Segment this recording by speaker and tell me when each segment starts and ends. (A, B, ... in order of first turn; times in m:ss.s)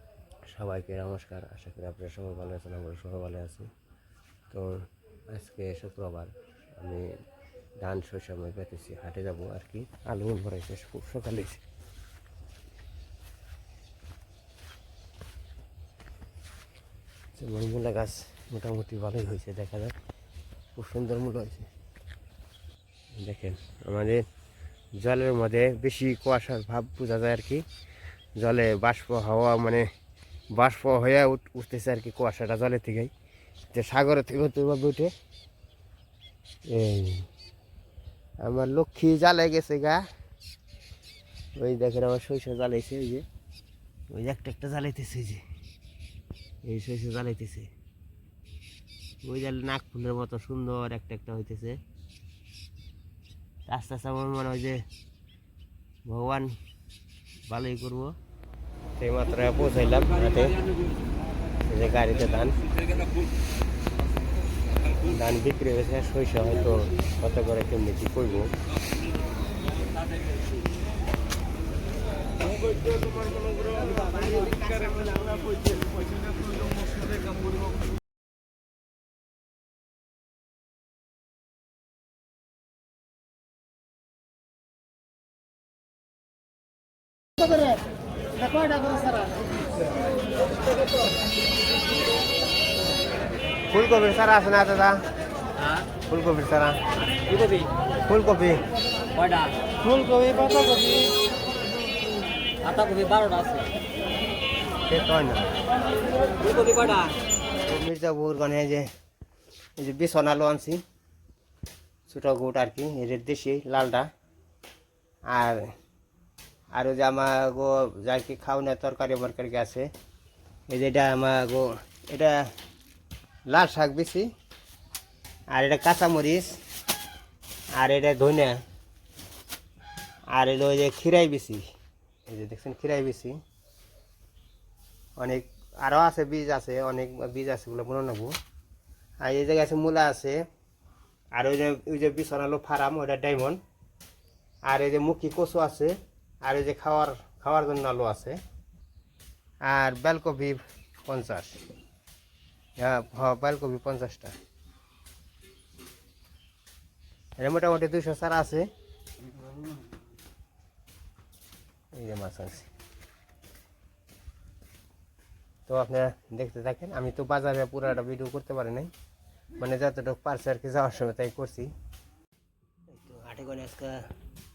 0:00.5-0:03.6 A
0:04.5-0:04.8 A
0:05.3-0:07.0 A
0:07.8-0:11.6 A
0:17.4-0:19.9 A
0:20.8-0:21.6 A
0:23.2-0:24.2 A
0:25.0-0:27.6 A
0:28.4-0:29.8 A
0:30.5-0:33.1 A
0:33.7-0:35.1 A
0:36.7-0:37.3 A
0:38.4-0:40.0 A
0:41.6-0:43.2 A
0:44.1-0:45.4 A
0:46.6-0:47.7 A
0:49.2-0:51.8 A
0:53.7-0:54.8 A
0:56.0-0:56.5 A
0:57.4-0:58.1 A
0:59.0-1:00.6 A
1:01.6-1:02.6 A
1:05.0-1:08.5 A
1:12.5-1:15.8 A
1:28.5-1:29.2 A
1:33.7-1:35.0 A
1:36.0-1:36.8 A
1:37.3-1:37.7 B
1:38.0-1:38.6 A
1:39.2-1:39.5 B
1:39.8-1:41.1 A
1:42.6-1:43.7 B
1:44.9-1:45.6 A
1:46.4-1:47.1 B
1:47.6-1:48.9 A
1:49.8-1:50.8 A
1:52.1-1:54.1 A
1:55.3-1:55.6 A
1:56.7-1:59.9 A
2:00.7-2:02.4 A
2:03.5-2:04.3 A
2:05.5-2:06.6 A
2:07.7-2:08.6 A
2:10.3-2:11.6 A
2:12.3-2:13.4 A
2:15.2-2:18.3 A
2:19.2-2:20.4 A
2:21.3-2:23.6 A
2:24.6-2:28.4 A
2:29.6-2:31.6 A
2:32.8-2:34.3 A
2:37.4-2:38.7 A
2:41.9-2:42.7 A
2:45.7-2:48.9 A
2:49.6-2:51.7 A
2:52.9-2:54.0 A